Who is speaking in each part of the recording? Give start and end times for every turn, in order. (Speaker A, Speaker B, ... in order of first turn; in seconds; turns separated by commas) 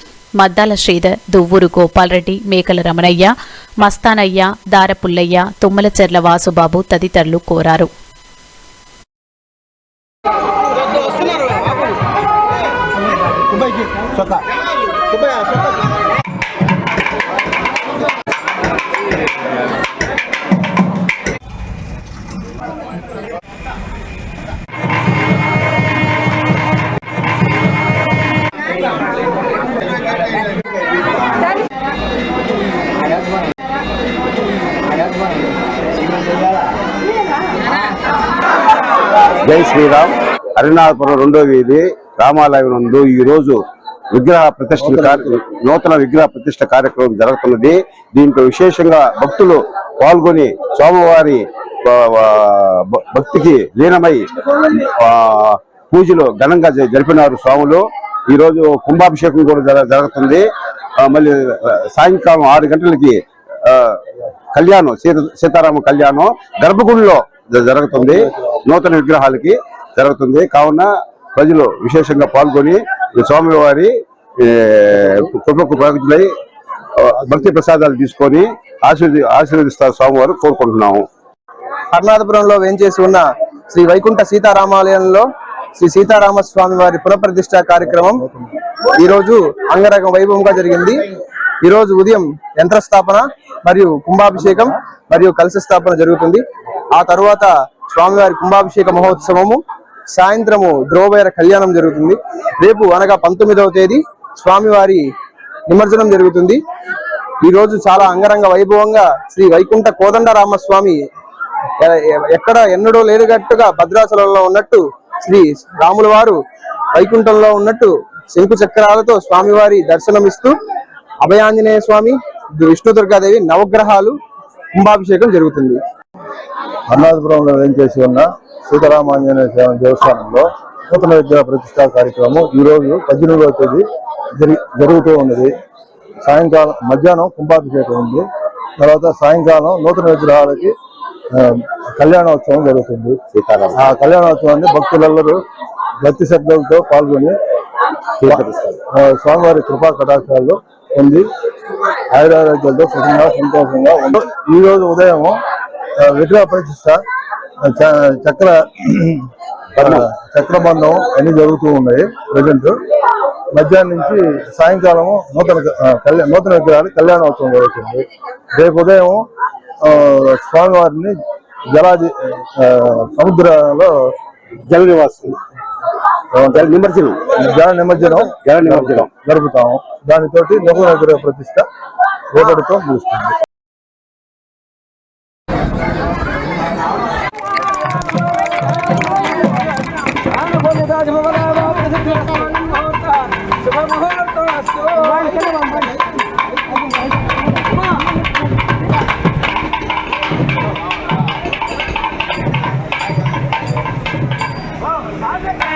Speaker A: 0.4-7.9, Speaker B: 39.4-43.6, Speaker B: 44.1-60.5, Speaker B: 61.0-64.0, Speaker B: 64.5-76.3, Speaker B: 77.0-81.1, Speaker C: 81.9-85.3, Speaker C: 85.8-88.2, Speaker D: 87.9-88.5, Speaker C: 88.9-91.0, Speaker C: 91.6-96.4, Speaker C: 96.9-99.6, Speaker C: 100.1-105.0, Speaker C: 105.7-106.6, Speaker C: 107.4-111.0, Speaker C: 111.8-116.4, Speaker C: 116.9-120.5, Speaker C: 121.2-124.2, Speaker C: 124.8-125.8, Speaker D: 126.9-133.8, Speaker D: 134.4-135.5, Speaker D: 136.2-138.2, Speaker D: 138.8-140.7, Speaker D: 141.3-143.2, Speaker B: 143.3-143.8, Speaker D: 143.7-145.4, Speaker D: 146.0-147.3, Speaker B: 148.2-148.8, Speaker D: 148.3-151.2, Speaker D: 152.1-155.4, Speaker D: 156.0-157.0, Speaker D: 157.6-162.7, Speaker B: 159.8-160.0, Speaker D: 163.5-168.0, Speaker D: 168.6-169.2, Speaker D: 169.8-171.2, Speaker D: 171.7-174.1, Speaker B: 174.7-175.4, Speaker D: 176.3-176.7, Speaker B: 176.5-177.2, Speaker D: 177.3-181.7, Speaker B: 178.4-179.1, Speaker D: 182.3-183.3